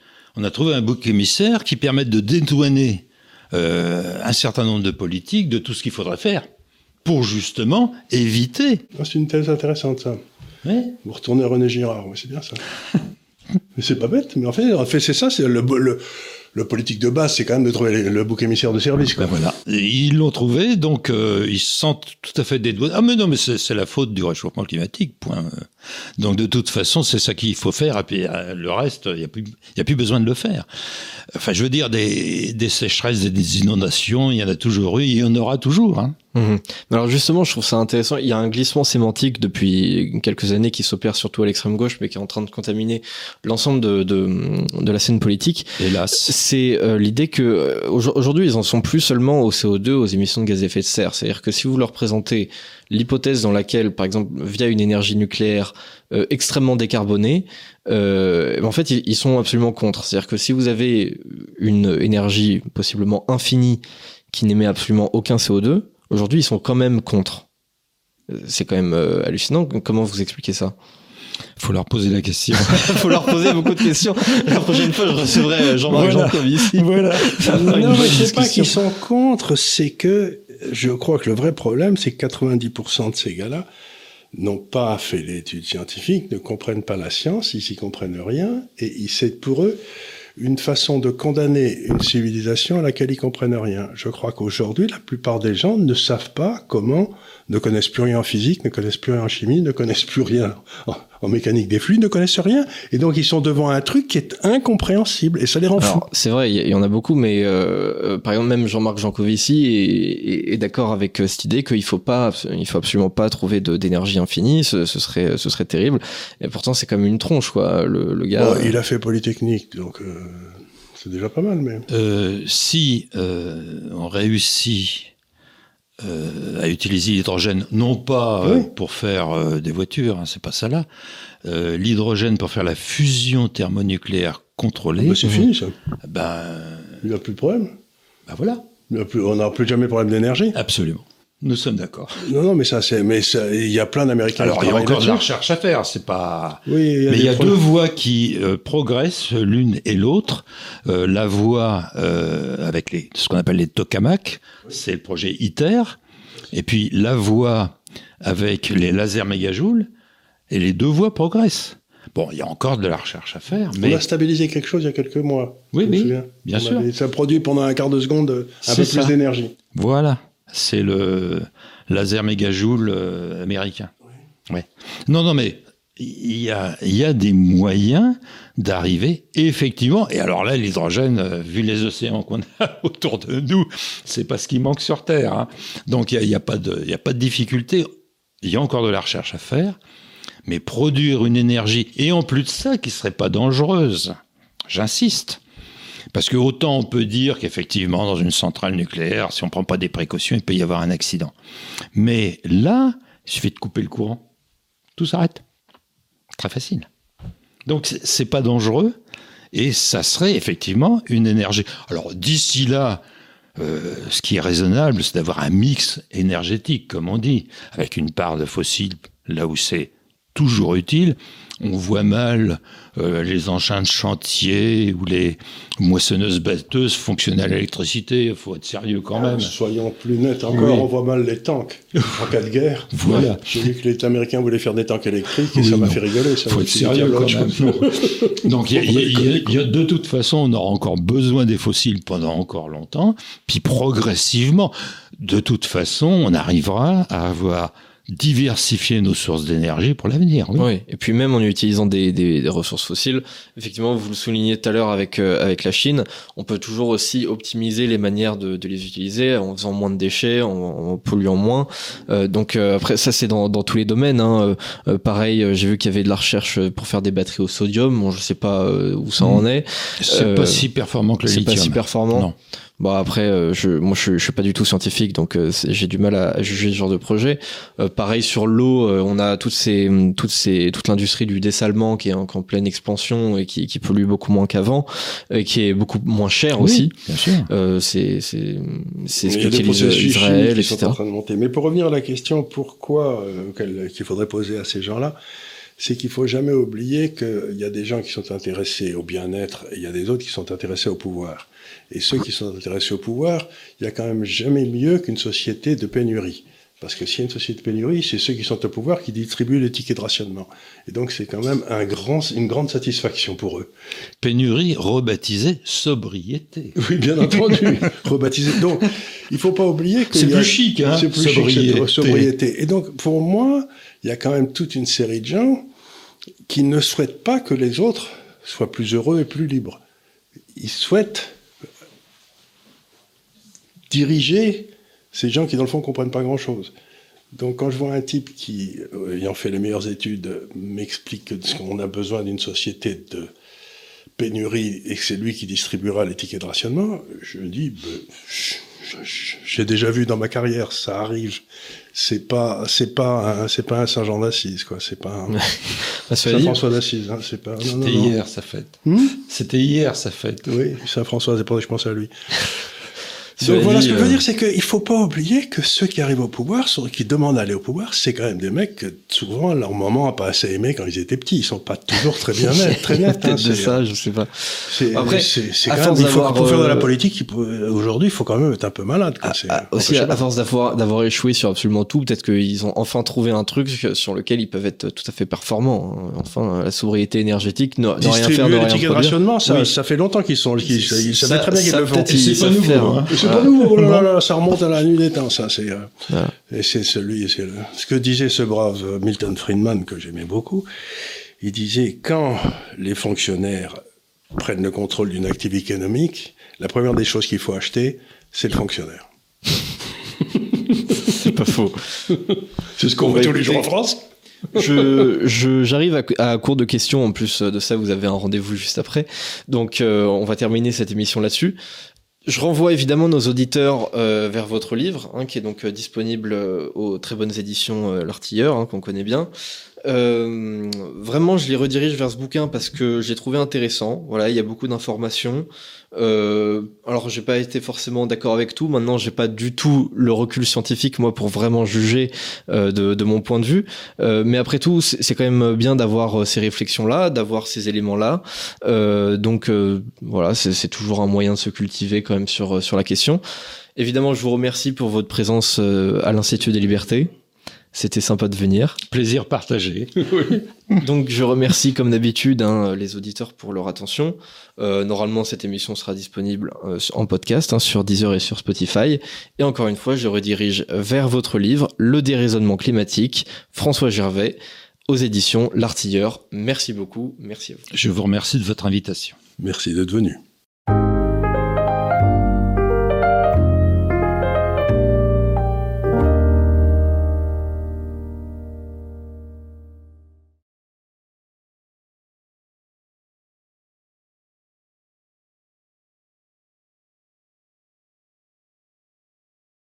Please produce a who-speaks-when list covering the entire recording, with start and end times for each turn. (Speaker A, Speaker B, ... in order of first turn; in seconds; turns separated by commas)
Speaker A: 0.3-6.5, Speaker A: 7.0-8.8, Speaker B: 8.9-10.2, Speaker A: 10.7-11.0, Speaker B: 11.0-12.6, Speaker B: 13.8-19.4, Speaker A: 19.2-36.2, Speaker C: 36.4-67.5, Speaker A: 45.8-46.3, Speaker C: 68.3-70.8, Speaker A: 71.6-78.5, Speaker C: 72.5-78.7, Speaker B: 77.5-83.7, Speaker B: 84.3-89.8, Speaker B: 90.4-106.1, Speaker C: 105.8-118.8, Speaker B: 118.4-121.9, Speaker A: 121.9-125.1, Speaker A: 126.0-130.9, Speaker B: 128.4-128.7, Speaker A: 131.4-135.3, Speaker B: 135.0-135.8, Speaker A: 136.0-137.0, Speaker B: 137.0-137.7, Speaker A: 138.3-138.7, Speaker B: 138.9-140.6, Speaker A: 140.6-142.3, Speaker B: 142.2-145.3, Speaker A: 144.4-156.0, Speaker B: 146.7-147.6, Speaker A: 156.5-159.9, Speaker A: 160.5-164.0, Speaker B: 163.8-169.6, Speaker A: 165.7-166.9, Speaker A: 168.7-169.2, Speaker A: 169.7-173.9, Speaker A: 174.5-187.9, Speaker A: 188.4-189.8, Speaker A: 190.4-194.2, Speaker A: 194.7-195.4, Speaker A: 196.1-201.3, Speaker A: 201.9-204.2, Speaker A: 205.0-205.4, Speaker A: 206.4-206.9, Speaker A: 207.7-208.9, Speaker A: 209.5-213.0, Speaker A: 213.6-229.5, Speaker B: 229.2-239.7, Speaker A: 230.5-230.8, Speaker A: 232.9-233.5, Speaker A: 235.5-250.7, Speaker C: 250.6-270.7, Speaker A: 270.0-272.3, Speaker C: 271.3-272.3, Speaker C: 272.8-286.9, Speaker A: 286.6-287.5, Speaker C: 287.5-291.0, Speaker B: 289.3-295.2, Speaker B: 295.8-313.7, Speaker A: 314.2-316.8, Speaker B: 316.8-325.7, Speaker A: 317.3-317.7, Speaker A: 320.1-322.3, Speaker B: 326.5-329.8, Speaker B: 330.6-331.4, Speaker B: 333.9-336.7, Speaker B: 337.4-343.3, Speaker B: 344.2-358.1, Speaker C: 355.3-356.6, Speaker A: 357.7-360.6, Speaker B: 358.9-359.2, Speaker B: 360.5-362.1, Speaker C: 363.4-364.2, Speaker B: 363.4-373.8, Speaker C: 372.4-376.9, Speaker B: 374.7-380.2, Speaker C: 379.2-389.7, Speaker B: 388.0-392.2, Speaker C: 390.8-393.5, Speaker A: 392.1-394.0, Speaker B: 393.1-400.7, Speaker C: 396.1-396.3, Speaker B: 401.4-403.8, Speaker B: 404.3-409.1, Speaker B: 410.4-411.0, Speaker C: 410.9-412.1, Speaker B: 412.1-414.0, Speaker C: 413.0-413.7, Speaker C: 414.5-421.6, Speaker C: 422.3-429.3, Speaker C: 429.9-453.2, Speaker C: 453.8-457.1, Speaker C: 457.7-458.8, Speaker A: 458.9-460.4, Speaker C: 460.8-477.6, Speaker A: 477.7-479.2, Speaker B: 479.4-480.2